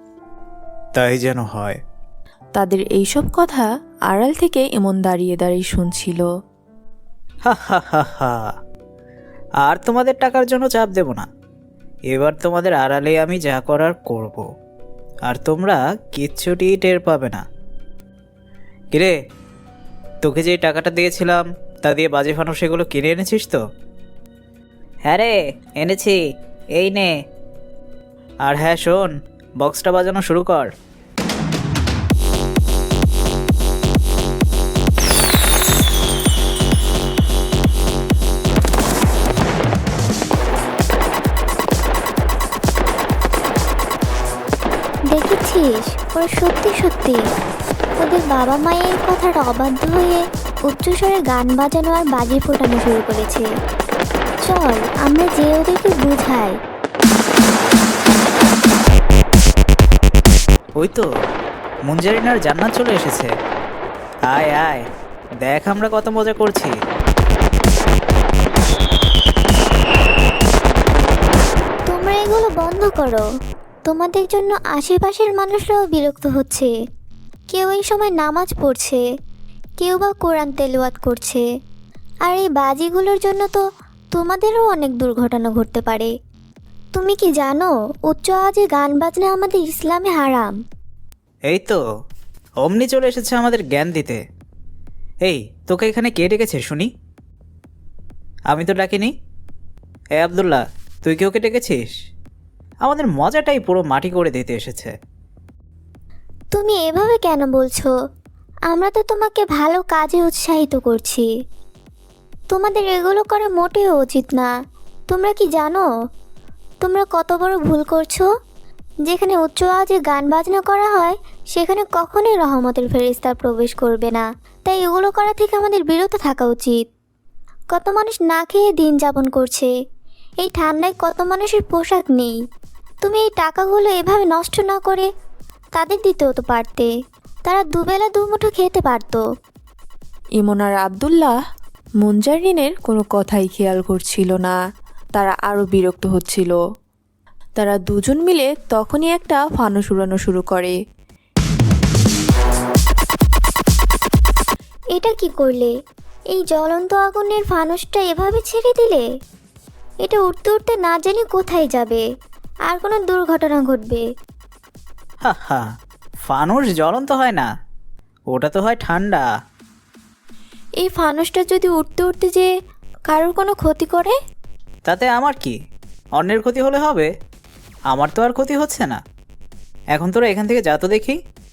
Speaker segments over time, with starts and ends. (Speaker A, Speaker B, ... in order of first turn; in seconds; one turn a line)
Speaker A: 0.9-1.8
Speaker B: 2.5-6.2
Speaker A: 7.5-8.5
Speaker A: 9.6-11.2
Speaker A: 12.1-14.4
Speaker A: 15.3-17.4
Speaker A: 20.2-23.6
Speaker A: 25.1-26.2
Speaker A: 26.8-27.1
Speaker A: 28.4-30.7
Speaker C: 45.1-47.2
Speaker C: 48.0-53.5
Speaker C: 54.5-56.6
Speaker A: 60.8-61.1
Speaker A: 61.9-63.3
Speaker A: 64.3-64.8
Speaker A: 65.4-66.8
Speaker C: 71.9-73.2
Speaker C: 73.9-76.7
Speaker C: 77.5-79.0
Speaker C: 79.8-81.5
Speaker C: 82.3-83.6
Speaker C: 84.1-86.1
Speaker C: 87.0-90.6
Speaker A: 91.5-91.8
Speaker A: 92.6-94.2
Speaker A: 95.2-96.9
Speaker A: 98.5-99.1
Speaker A: 100.2-101.9
Speaker A: 102.8-104.9
Speaker C: 106.5-107.9
Speaker C: 108.7-111.3
Speaker C: 112.5-114.5
Speaker C: 115.1-115.9
Speaker C: 116.8-118.3
Speaker C: 119.1-126.8
Speaker C: 127.7-129.7
Speaker C: 130.4-132.4
Speaker C: 133.0-135.1
Speaker C: 135.8-136.9
Speaker C: 137.5-139.2
Speaker B: 140.4-141.3
Speaker B: 142.0-144.6
Speaker B: 145.2-146.6
Speaker B: 147.6-150.8
Speaker C: 154.9-155.7
Speaker C: 156.3-159.0
Speaker C: 160.0-162.0
Speaker C: 162.7-164.0
Speaker A: 165.2-165.7
Speaker A: 166.2-167.5
Speaker A: 168.3-169.2
Speaker B: 170.8-172.5
Speaker B: 173.1-174.2
Speaker A: 174.9-175.6
Speaker A: 176.2-177.1
Speaker A: 177.9-179.0
Speaker A: 179.9-181.2